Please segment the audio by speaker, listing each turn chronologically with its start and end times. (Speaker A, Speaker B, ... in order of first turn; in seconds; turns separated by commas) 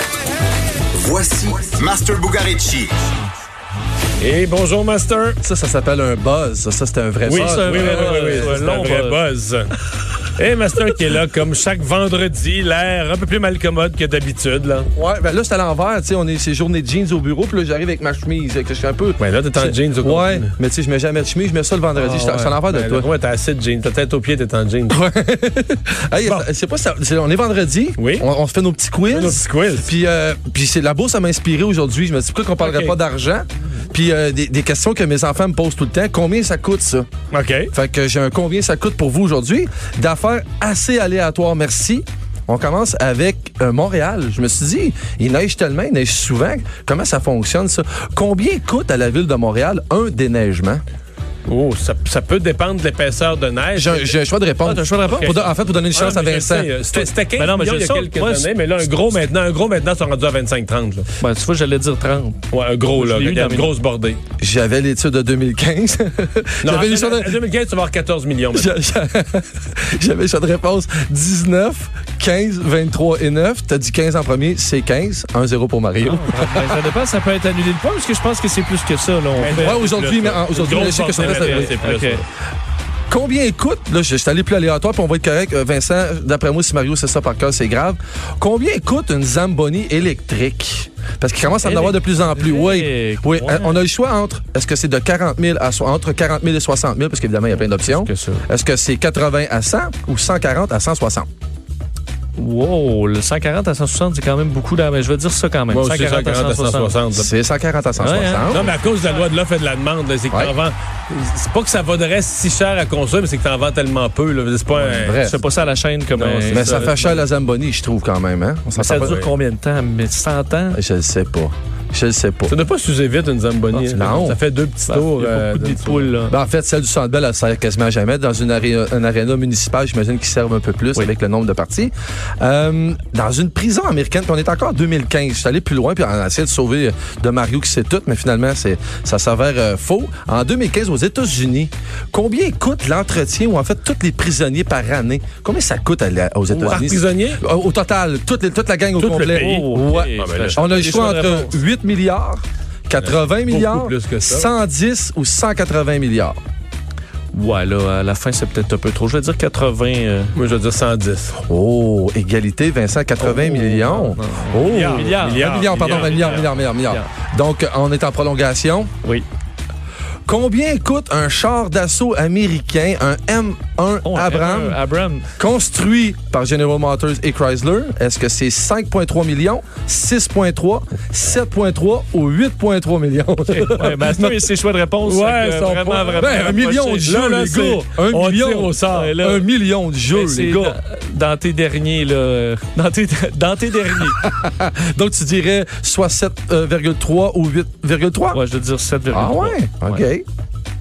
Speaker A: 0.9-2.9, Speaker B: 4.2-5.4, Speaker C: 5.4-8.6, Speaker B: 7.2-9.7, Speaker D: 7.3-9.2, Speaker B: 10.3-14.9, Speaker C: 14.9-23.1, Speaker B: 19.2-20.5, Speaker B: 21.9-25.0, Speaker C: 24.9-37.1, Speaker B: 28.0-28.3, Speaker B: 29.1-29.9, Speaker B: 32.6-33.0, Speaker B: 37.3-37.7, Speaker C: 37.7-50.8, Speaker B: 51.5-54.1, Speaker C: 53.8-56.7, Speaker D: 54.6-55.4, Speaker B: 55.2-61.1, Speaker D: 56.9-58.5, Speaker D: 61.2-62.4, Speaker B: 62.5-64.2, Speaker D: 62.9-63.7, Speaker C: 64.4-67.4, Speaker B: 66.6-68.9, Speaker C: 68.5-76.8, Speaker D: 76.0-79.8, Speaker B: 79.3-82.2, Speaker C: 79.5-81.8, Speaker D: 81.1-82.2, Speaker C: 83.1-101.3, Speaker D: 91.6-93.8, Speaker D: 97.7-98.5, Speaker D: 102.4-107.0, Speaker B: 105.7-107.3, Speaker C: 107.1-108.7, Speaker D: 108.0-108.8, Speaker B: 108.5-115.4, Speaker C: 114.8-115.4, Speaker D: 115.2-117.2, Speaker B: 116.2-116.9, Speaker C: 116.5-119.2, Speaker D: 118.8-120.8, Speaker B: 118.9-119.3, Speaker C: 120.7-122.5, Speaker B: 122.5-126.2, Speaker C: 123.9-124.4, Speaker D: 124.9-126.3, Speaker C: 126.3-156.4, Speaker B: 146.5-147.4, Speaker D: 149.0-151.6, Speaker B: 150.2-150.6, Speaker B: 153.0-154.5, Speaker D: 157.3-160.3, Speaker B: 160.3-161.4, Speaker C: 161.5-168.9, Speaker D: 163.2-167.1, Speaker B: 164.6-166.5, Speaker C: 170.3-174.8, Speaker D: 174.0-175.3, Speaker C: 175.4-184.4, Speaker D: 183.5-187.1, Speaker B: 185.0-186.5, Speaker C: 186.2-190.8, Speaker B: 187.0-189.1, Speaker D: 188.9-189.5, Speaker D: 190.1-194.3, Speaker C: 194.0-198.4, Speaker D: 198.3-200.1, Speaker C: 199.1-200.2